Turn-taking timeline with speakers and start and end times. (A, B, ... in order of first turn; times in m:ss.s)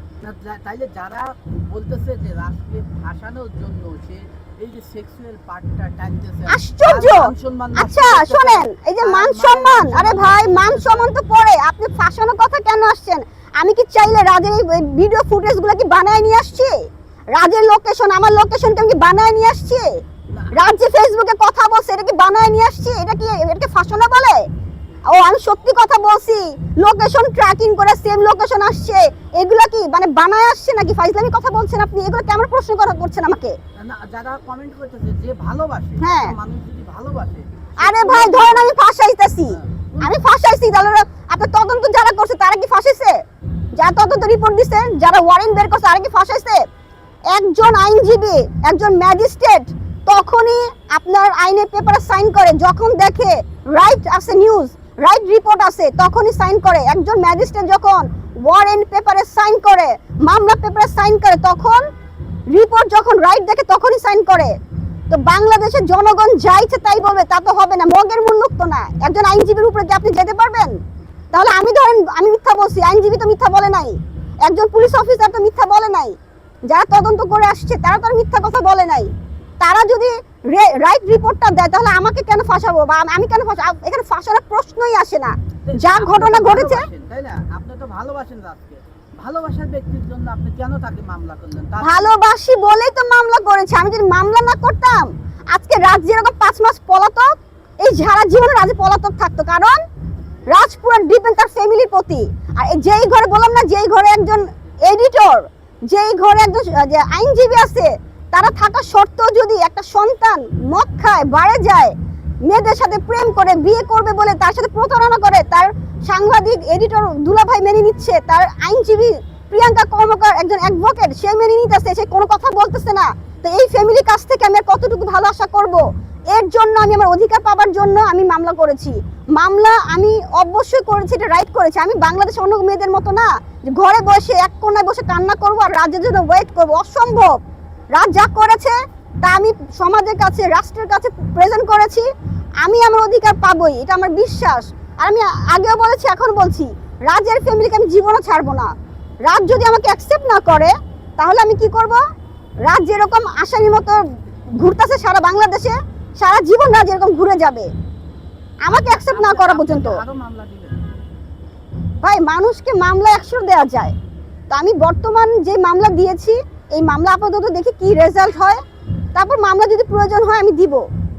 0:00.2-0:11.1 A
0:06.5-0:16.8 B
0:17.3-0:19.9 B
0:20.3-0:20.6 A
0:20.5-0:24.4 B
0:25.1-0:33.6 B
0:33.8-0:38.7 A
0:36.0-0:36.3 B
0:37.8-0:43.2 B
0:39.5-0:40.2 A
0:43.8-0:46.6 B
0:47.3-1:01.9 B
1:02.5-1:04.6 B
1:05.1-1:10.8 B
1:11.3-1:16.2 B
1:16.7-1:26.8 B
1:25.6-1:32.1 A
1:31.8-1:39.8 B
1:40.5-1:51.9 B
1:52.4-2:17.4 B
2:17.9-2:22.1 B
2:22.6-2:28.7 B
2:29.3-2:32.0 B
2:32.6-2:34.0 B
2:34.6-2:37.7 B
2:38.6-2:40.0 B
2:38.7-2:40.8 A
2:42.0-2:43.9 B
2:44.5-2:48.6 B
2:49.1-2:50.8 B